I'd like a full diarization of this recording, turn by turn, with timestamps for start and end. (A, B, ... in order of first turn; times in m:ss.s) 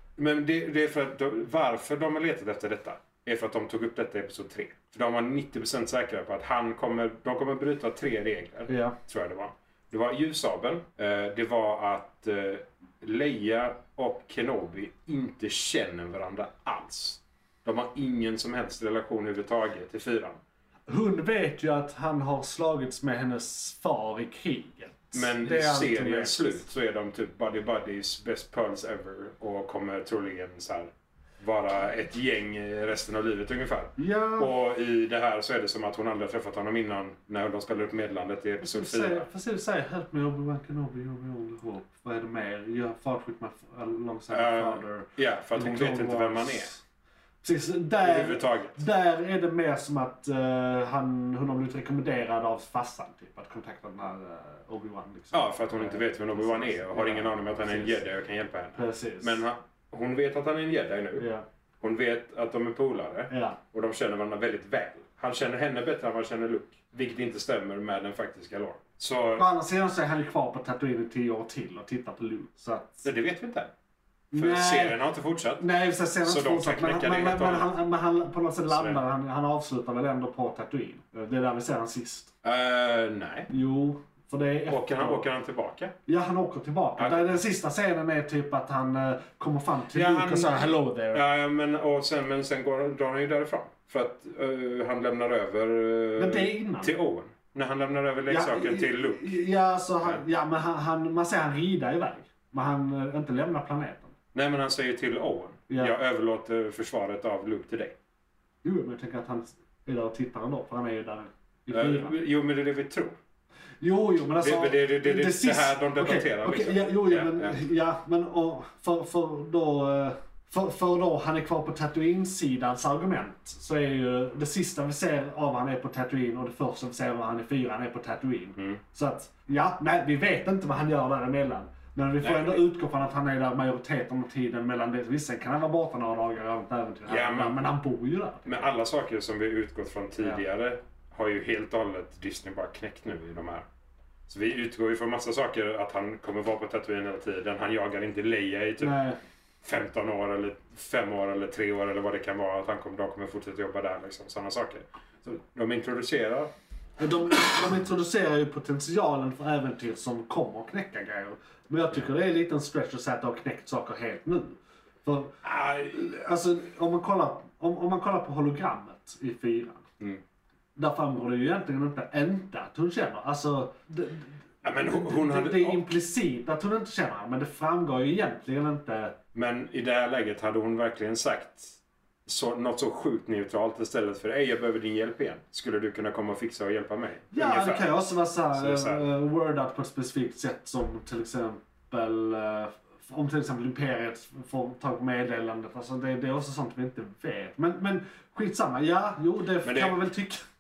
0:00.2-0:20.4 A
0:08.7-0:09.0 B
0:20.9-0:26.6 B
0:25.1-0:39.3 A
0:34.0-0:34.5 B
0:38.6-0:46.8 B
0:44.3-0:46.7 A
0:47.4-0:58.0 B
0:48.0-0:48.8 A
0:55.3-1:01.3 A
0:58.8-0:59.4 B
1:01.2-1:01.4 B
1:01.8-1:09.5 A
1:03.3-1:03.6 B
1:09.4-1:13.1 B
1:13.0-1:13.7 A
1:14.3-1:15.0 B
1:14.4-1:15.6 A
1:15.6-1:22.3 B
1:16.2-1:17.7 A
1:18.7-1:19.0 A
1:22.4-1:23.5 A
1:23.5-1:25.2 B
1:24.7-1:26.0 A
1:26.1-1:31.2 B
1:27.0-1:27.4 A
1:29.9-1:39.3 A
1:36.2-1:36.9 B
1:38.3-1:44.1 B
1:44.3-1:48.0 A
1:45.7-1:45.9 B
1:48.6-1:52.1 B
1:51.7-1:53.2 A
1:53.8-2:18.7 B
1:54.4-1:57.6 A
2:12.2-2:12.6 A
2:17.1-2:17.6 A
2:18.5-2:23.7 A
2:24.3-2:29.0 A
2:28.8-2:29.2 B
2:29.6-2:36.5 A
2:37.0-2:45.4 B
2:45.4-2:46.0 A
2:45.9-2:49.9 B
2:50.8-2:59.2 B
2:54.6-2:55.8 A
2:59.3-3:07.9 A
3:07.3-3:20.4 B
3:08.5-3:09.1 A
3:19.6-3:20.0 A